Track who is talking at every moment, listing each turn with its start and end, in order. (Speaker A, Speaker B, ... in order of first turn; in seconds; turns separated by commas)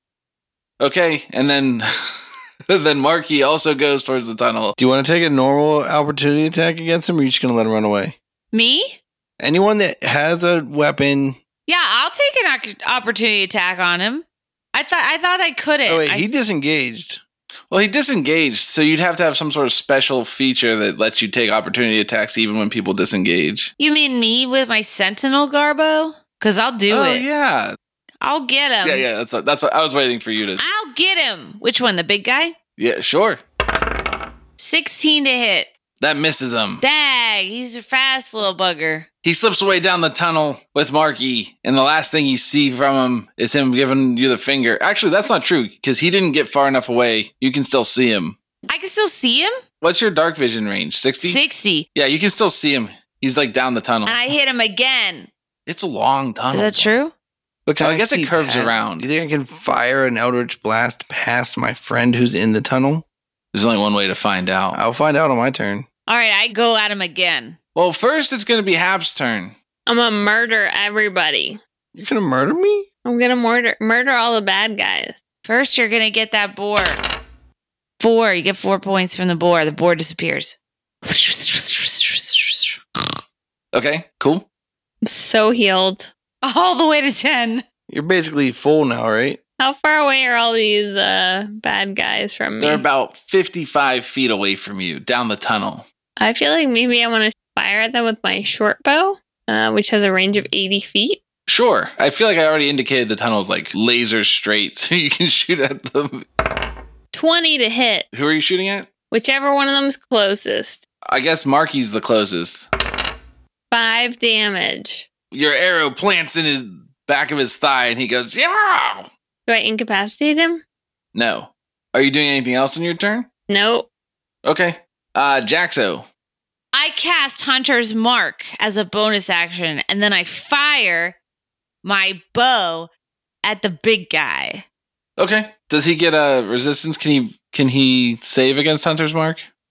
Speaker A: 0.8-2.1, Speaker A: 2.7-4.7, Speaker B: 4.8-8.2, Speaker C: 8.5-9.0, Speaker B: 9.4-11.4, Speaker C: 11.7-16.3, Speaker B: 15.9-17.2, Speaker A: 17.7-23.7, Speaker C: 23.8-27.2, Speaker A: 26.9-27.8, Speaker C: 28.2-29.1, Speaker A: 28.8-30.6, Speaker C: 30.6-32.5, Speaker A: 32.8-33.4, Speaker C: 34.6-35.7, Speaker A: 36.0-36.8, Speaker C: 36.8-39.1, Speaker A: 39.2-48.4, Speaker C: 48.7-49.6, Speaker A: 49.8-51.4, Speaker C: 51.2-51.9, Speaker A: 51.9-54.2, Speaker C: 54.0-55.3, Speaker A: 55.6-57.0, Speaker C: 56.5-57.1, Speaker B: 57.6-63.0, Speaker A: 57.8-59.1, Speaker A: 63.5-64.8, Speaker B: 64.7-65.8, Speaker C: 66.1-67.6, Speaker A: 67.7-69.5, Speaker D: 69.9-71.6, Speaker B: 71.9-72.9, Speaker D: 73.0-75.2, Speaker C: 75.4-77.0, Speaker C: 78.0-83.1, Speaker A: 83.7-84.5, Speaker D: 85.0-86.1, Speaker C: 86.4-87.6, Speaker B: 87.9-89.4, Speaker D: 89.6-92.8, Speaker A: 92.6-95.8, Speaker D: 96.2-101.2, Speaker A: 101.5-106.2, Speaker D: 107.1-108.1, Speaker A: 108.1-108.9, Speaker D: 109.1-110.8, Speaker A: 111.0-112.7, Speaker D: 113.7-115.1, Speaker A: 115.3-119.1, Speaker D: 119.5-120.6, Speaker A: 121.1-123.3, Speaker D: 123.5-123.9, Speaker A: 124.4-126.0, Speaker C: 126.7-131.2, Speaker C: 131.8-132.9, Speaker C: 133.4-134.6, Speaker A: 135.2-139.4